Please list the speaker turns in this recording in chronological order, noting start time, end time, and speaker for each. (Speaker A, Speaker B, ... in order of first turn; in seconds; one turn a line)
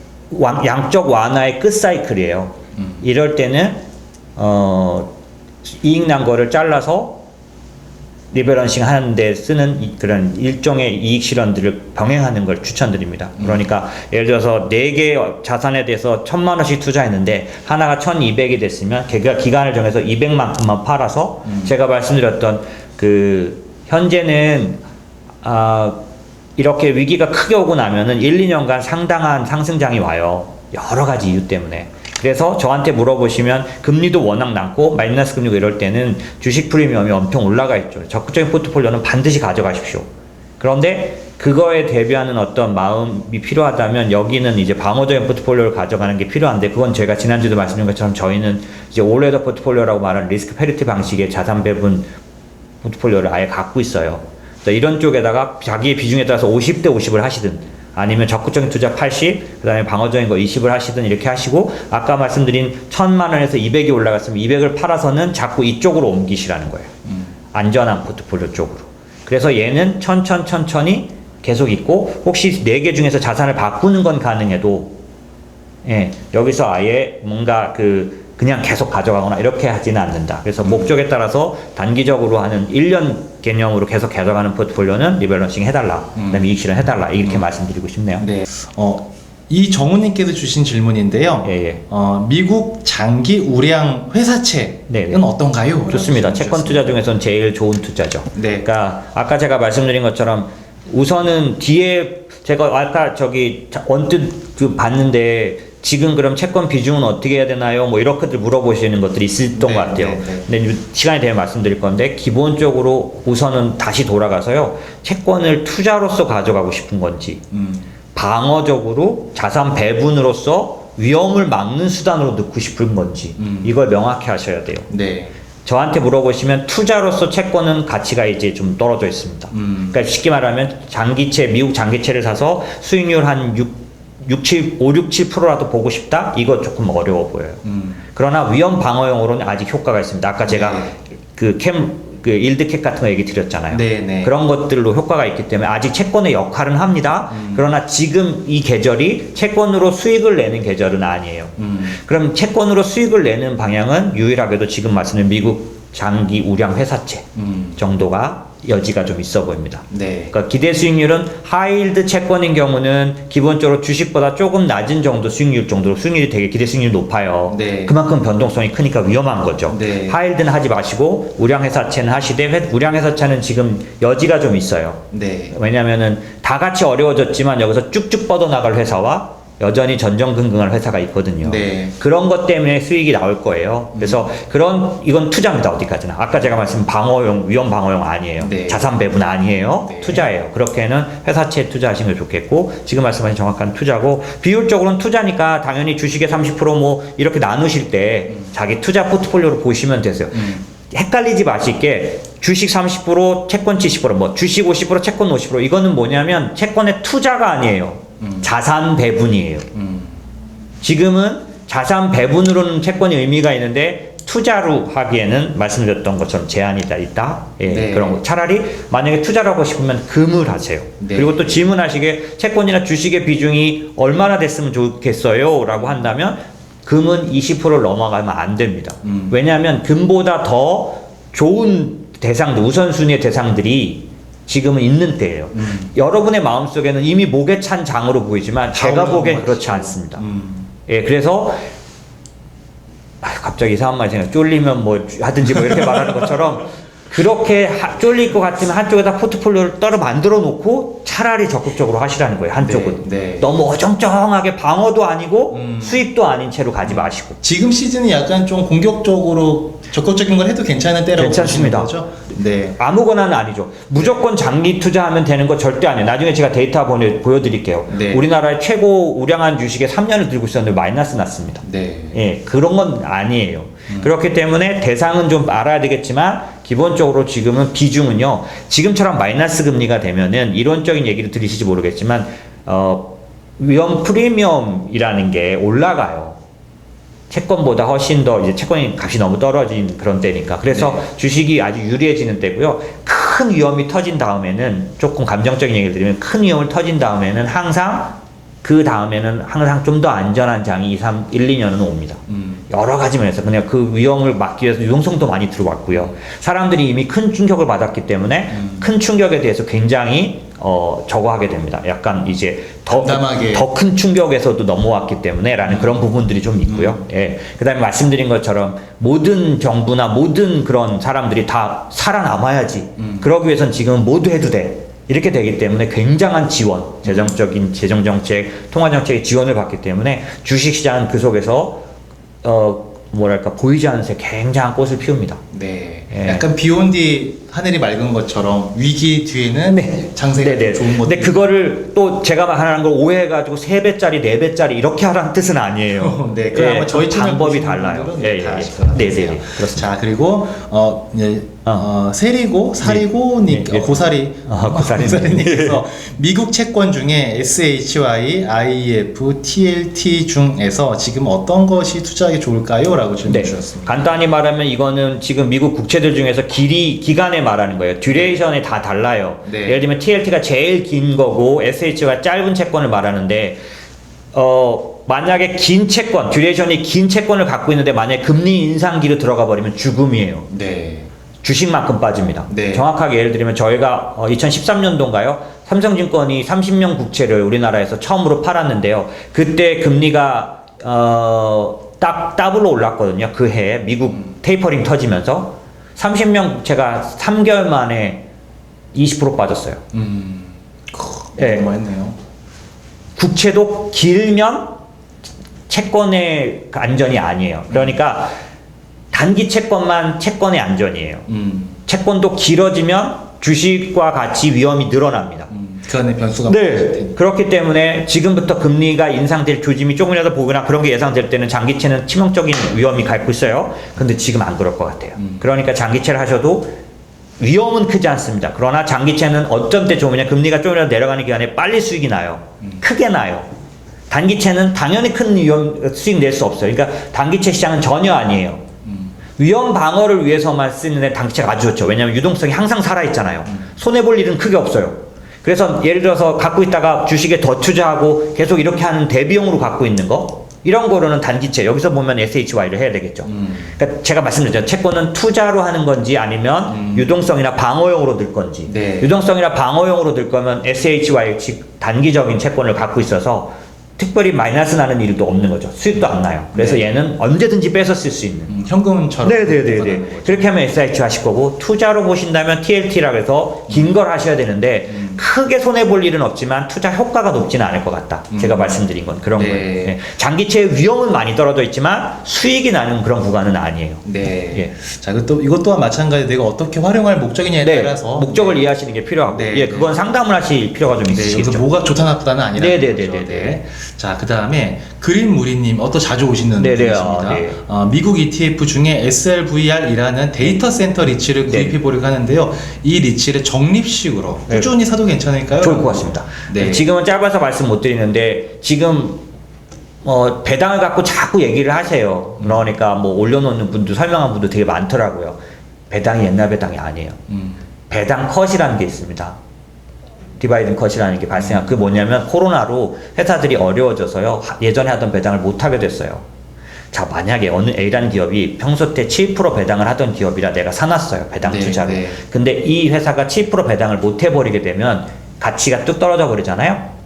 Speaker A: 0.3-3.8
Speaker A: 4.3-5.1
Speaker A: 5.7-7.2
Speaker A: 8.3-24.8
Speaker B: 21.4-21.7
Speaker A: 25.4-26.0
Speaker A: 26.6-40.1
Speaker A: 40.6-52.1
Speaker A: 52.8-66.9
Speaker A: 67.5-74.9
Speaker A: 75.8-88.3
Speaker B: 80.6-80.9
Speaker B: 86.2-86.5
Speaker B: 88.2-97.0
Speaker A: 91.4-91.8
Speaker A: 94.9-95.2
Speaker A: 95.9-117.4
Speaker B: 98.3-98.7
Speaker B: 109.5-110.5
Speaker B: 117.5-117.9
Speaker A: 118.1-124.9
Speaker B: 123.4-123.7
Speaker B: 124.9-125.3
Speaker A: 125.6-137.6
Speaker B: 129.5-130.0
Speaker B: 137.6-138.0
Speaker A: 138.1-209.7
Speaker B: 140.4-140.9
Speaker B: 143.7-144.3
Speaker B: 147.3-147.7
Speaker B: 151.6-151.9
Speaker B: 157.3-157.8
Speaker B: 159.9-160.3
Speaker B: 167.5-168.0
Speaker B: 169.7-170.2
Speaker B: 175.1-175.6
Speaker B: 181.4-181.9
Speaker B: 183.9-184.3
Speaker B: 188.4-188.9
Speaker B: 189.8-190.3
Speaker B: 208.2-208.5
Speaker B: 209.7-210.1
Speaker A: 210.8-240.2
Speaker B: 217.7-218.2
Speaker B: 221.0-221.6
Speaker B: 229.0-229.3
Speaker B: 235.5-235.9
Speaker B: 238.7-240.7
Speaker A: 240.9-241.6
Speaker A: 243.2-257.4
Speaker B: 252.6-253.5
Speaker B: 255.5-256.0
Speaker B: 256.8-262.8
Speaker A: 261.1-261.9
Speaker A: 262.8-286.4
Speaker B: 267.9-268.2
Speaker B: 271.6-272.2
Speaker A: 287.3-331.8
Speaker B: 290.7-291.0
Speaker B: 302.3-302.6
Speaker B: 308.6-308.9
Speaker B: 312.9-313.7
Speaker B: 315.6-316.0
Speaker B: 316.6-317.0
Speaker B: 323.0-323.3
Speaker B: 327.0-327.4
Speaker A: 332.4-335.4
Speaker B: 335.5-341.4
Speaker A: 336.1-336.5
Speaker A: 339.6-349.9
Speaker B: 345.9-364.1
Speaker A: 352.8-355.8
Speaker A: 363.2-373.6
Speaker B: 369.4-369.8
Speaker A: 374.3-380.5
Speaker B: 380.5-381.1
Speaker A: 381.4-398.2
Speaker B: 382.5-382.9
Speaker A: 398.9-399.8
Speaker B: 399.9-402.1
Speaker A: 401.4-401.7
Speaker A: 403.1-404.8
Speaker A: 405.7-408.3
Speaker A: 409.1-411.3
Speaker B: 411.3-411.8
Speaker A: 411.9-415.5
Speaker B: 415.5-417.1
Speaker A: 416.4-426.7
Speaker B: 425.2-425.4
Speaker A: 427.4-433.5
Speaker A: 434.1-438.6
Speaker B: 438.8-439.1
Speaker A: 439.4-468.5
Speaker B: 453.3-453.7
Speaker B: 456.7-457.1
Speaker B: 458.7-459.1
Speaker B: 466.5-466.9
Speaker B: 468.5-470.5
Speaker A: 469.2-484.7
Speaker B: 473.7-473.9
Speaker B: 474.9-475.2
Speaker B: 478.3-478.8
Speaker B: 479.4-479.9
Speaker B: 484.0-488.6
Speaker A: 487.6-491.6
Speaker B: 489.2-489.9
Speaker B: 491.1-506.9
Speaker A: 492.5-493.6
Speaker A: 496.6-497.6
Speaker A: 501.5-501.8
Speaker A: 505.6-509.2
Speaker A: 510.0-515.4
Speaker B: 512.4-512.6
Speaker A: 515.9-517.2
Speaker B: 517.3-517.6
Speaker A: 517.9-519.4
Speaker A: 520.4-526.2
Speaker B: 521.4-521.8
Speaker A: 526.9-536.9
Speaker B: 531.4-532.2